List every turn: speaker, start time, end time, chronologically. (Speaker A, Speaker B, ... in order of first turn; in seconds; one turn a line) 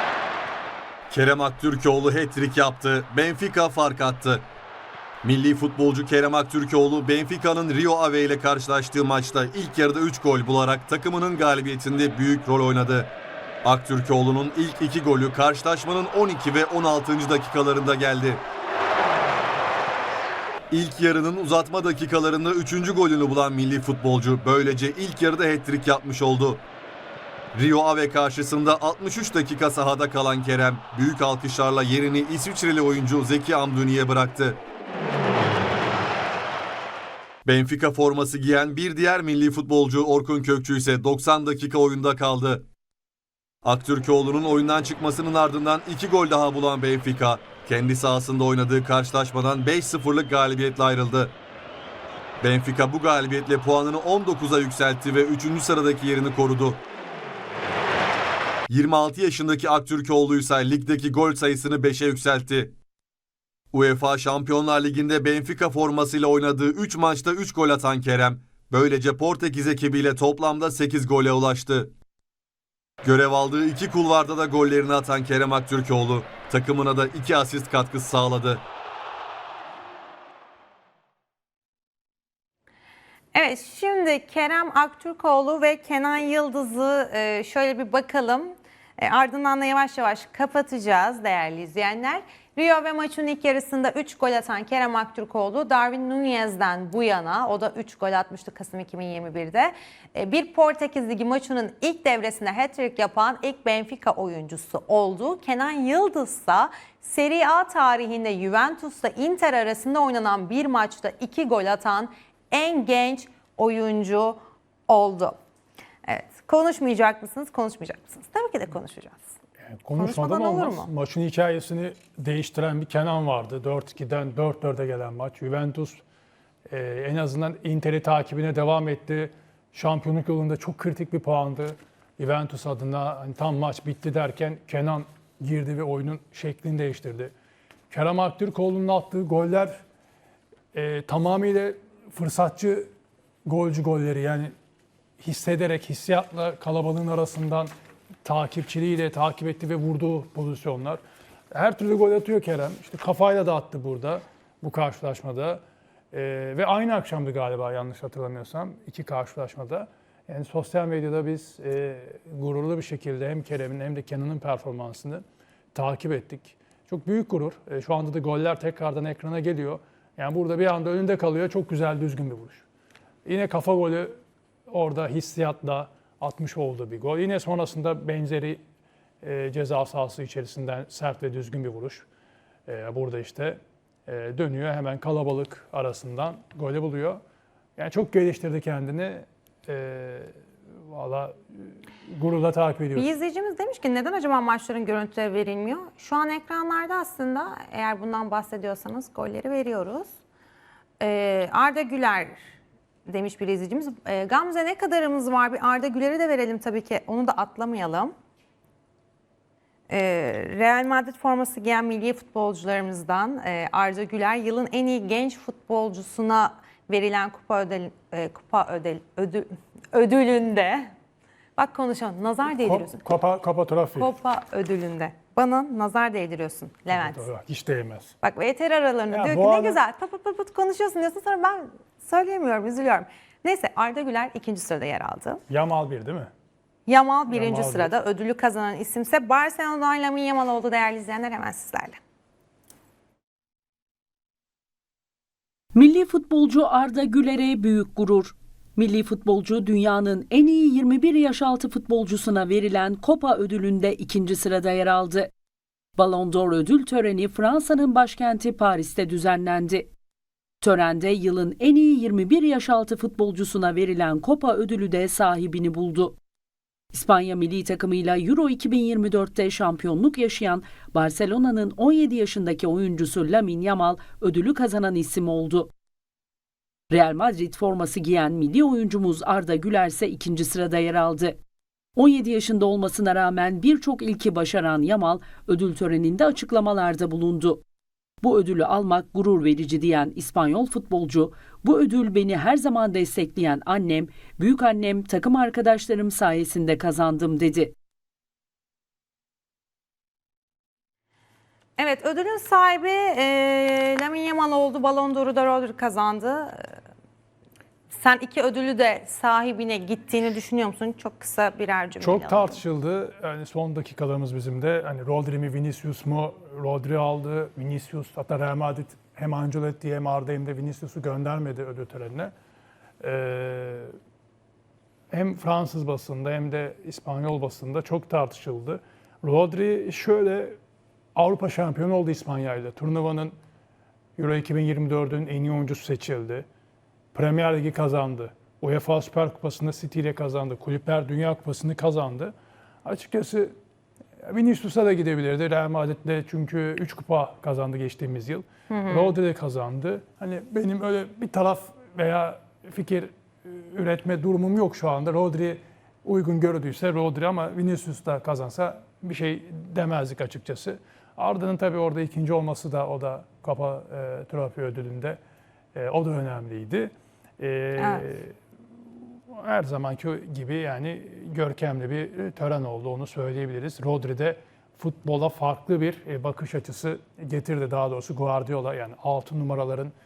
Speaker A: 1.1-4.4
Speaker A: 5.2-13.1
Speaker A: 13.6-18.4
Speaker A: 20.7-26.6
Speaker A: 27.5-34.6
Speaker A: 37.4-42.7
Speaker A: 43.6-51.4
Speaker A: 52.4-56.8
Speaker A: 58.7-62.8
Speaker A: 63.7-71.9
Speaker A: 73.0-78.6
Speaker B: 83.3-115.4
Speaker B: 116.0-119.4
Speaker C: 119.6-126.0
Speaker B: 120.0-120.9
Speaker C: 126.7-137.3
Speaker C: 137.9-139.8
Speaker C: 140.7-142.9
Speaker C: 143.4-144.5
Speaker C: 145.2-147.7
Speaker C: 148.2-151.0
Speaker C: 151.5-155.6
Speaker C: 156.1-172.6
Speaker C: 173.2-174.1
Speaker C: 174.7-178.6
Speaker C: 179.2-182.1
Speaker C: 182.7-187.2
Speaker C: 187.8-190.3
Speaker C: 190.9-193.1
Speaker B: 192.9-200.1
Speaker B: 201.0-202.4
Speaker B: 203.1-208.1
Speaker B: 209.9-220.9
Speaker B: 221.6-223.0
Speaker C: 222.6-224.1
Speaker B: 224.0-227.2
Speaker C: 226.9-228.1
Speaker B: 228.2-235.4
Speaker C: 229.1-229.8
Speaker C: 235.5-236.3
Speaker B: 236.8-242.0
Speaker C: 237.3-237.9
Speaker D: 245.7-255.3
Speaker D: 256.0-259.9
Speaker D: 260.6-266.2
Speaker D: 266.9-275.7
Speaker D: 276.9-281.4
Speaker D: 281.9-287.6
Speaker D: 288.2-297.7
Speaker B: 301.8-306.7
Speaker B: 307.9-312.6
Speaker C: 312.0-322.3
Speaker C: 323.0-323.9
Speaker C: 325.1-330.6
Speaker C: 331.1-333.3
Speaker C: 334.2-336.4
Speaker C: 337.1-342.3
Speaker C: 342.8-343.5
Speaker C: 344.2-365.2
Speaker B: 348.7-349.1
Speaker C: 365.7-368.3
Speaker B: 367.8-368.0
Speaker C: 369.3-379.9